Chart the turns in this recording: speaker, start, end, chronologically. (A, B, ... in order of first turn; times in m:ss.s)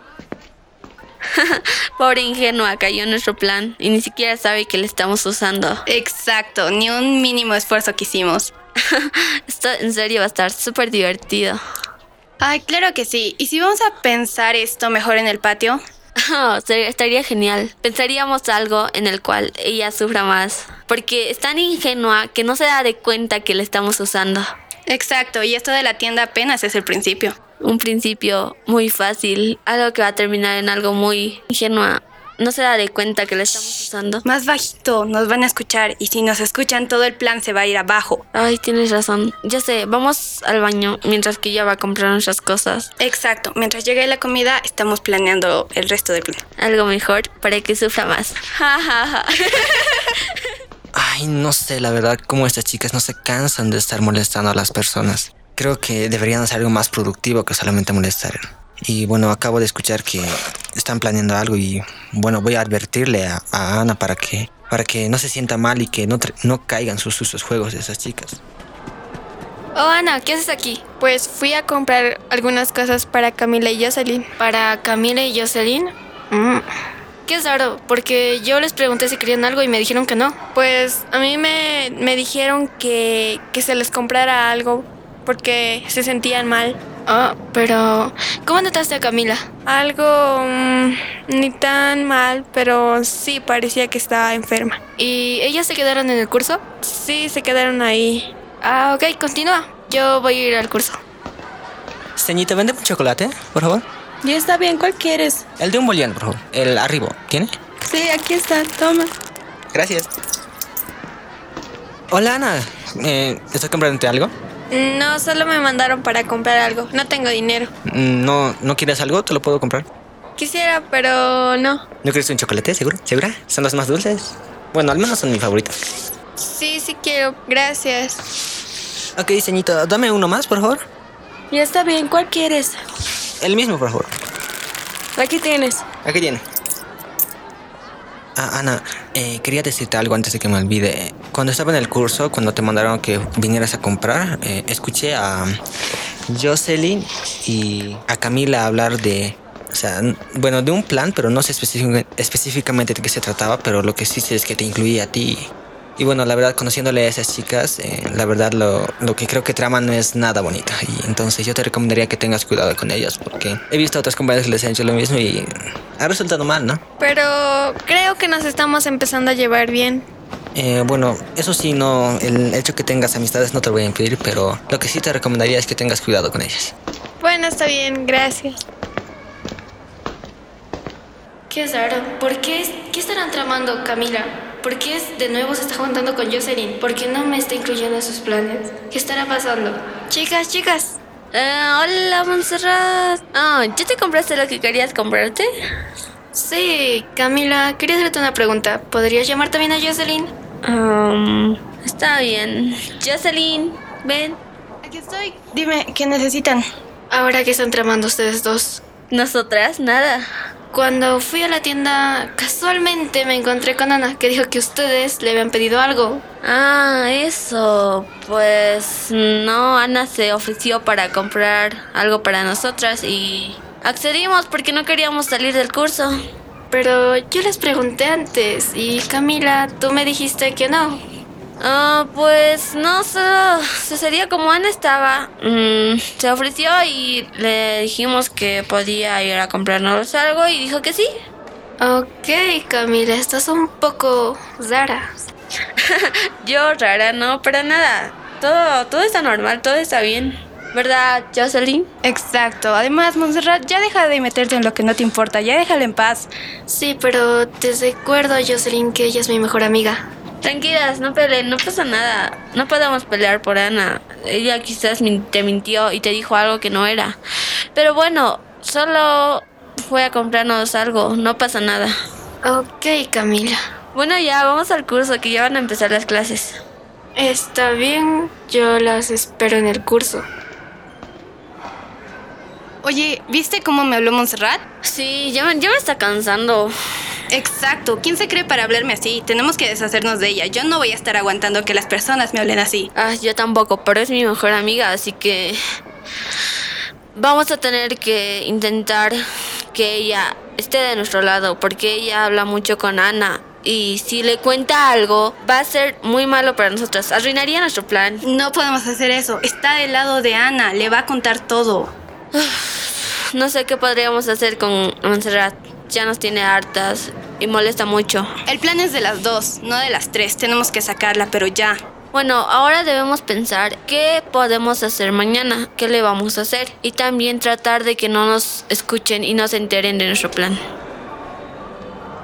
0:01.3-0:05.8 A
0:05.9-0:08.5 B
0:08.9-0:11.6 A
0:12.4-0:15.8 B
0:16.2-0:24.5 A
0:24.9-0:27.4 B
0:27.6-0:34.2 A
0:34.2-0:38.2 B
0:38.3-0:42.9 A
0:43.0-0:46.4 B
0:46.6-0:50.5 A
0:50.9-1:08.4 C
1:09.8-1:12.5 D
1:11.0-1:14.3 E
1:14.4-1:16.6 D
1:17.3-1:20.5 D
1:20.5-1:26.8 E
1:27.1-1:29.6 D
1:29.7-1:34.8 E
1:31.3-1:32.7 D
1:34.4-1:41.0 D
1:36.8-1:38.3 E
1:42.2-1:43.8 C
1:44.2-1:45.4 F
1:45.6-1:47.5 C
1:48.0-1:49.1 F
1:49.7-1:50.1 C
1:52.1-1:54.3 C
1:54.7-1:57.7 D
1:54.8-1:56.0 E
1:57.9-1:59.9 C
2:00.4-2:01.8 D
2:00.5-2:00.9 E
2:02.0-2:05.8 C
2:06.4-2:07.7 E
2:06.5-2:08.2 D
2:09.2-2:10.8 C
2:11.5-2:12.8 F
2:13.4-2:14.1 C
2:15.2-2:15.8 F
2:16.0-2:16.4 C
2:18.4-2:25.6 C
2:26.3-2:46.8 C
2:47.0-2:50.0 E
2:47.9-2:50.0 D
2:50.6-2:56.7 C
2:57.2-2:57.8 D
2:57.2-2:58.6 E
3:01.5-3:11.0 D
3:11.3-3:15.5 A
3:16.3-3:20.3 D
3:20.6-3:24.4 A
3:24.8-3:26.6 B
3:27.1-3:28.8 D
3:29.1-3:30.3 A
3:30.7-3:36.2 D
3:36.4-3:46.2 A
3:46.7-3:51.0 D
3:51.6-4:01.1 A
4:01.8-4:05.1 D
4:05.8-4:11.9 A
4:12.0-4:16.3 B
4:16.7-4:20.0 D
4:20.4-4:27.2 A
4:27.8-4:31.9 A
4:32.4-4:33.6 D
4:33.9-4:36.6 A
4:37.2-4:40.2 D
4:42.8-4:44.6 B
4:44.8-4:46.7 A
4:47.3-4:52.9 B
4:53.0-4:55.6 A
4:57.2-4:59.2 A
4:59.7-5:08.2 A
5:08.2-5:11.9 B
5:12.3-5:18.3 A
5:18.5-5:21.8 B
5:22.1-5:30.6 A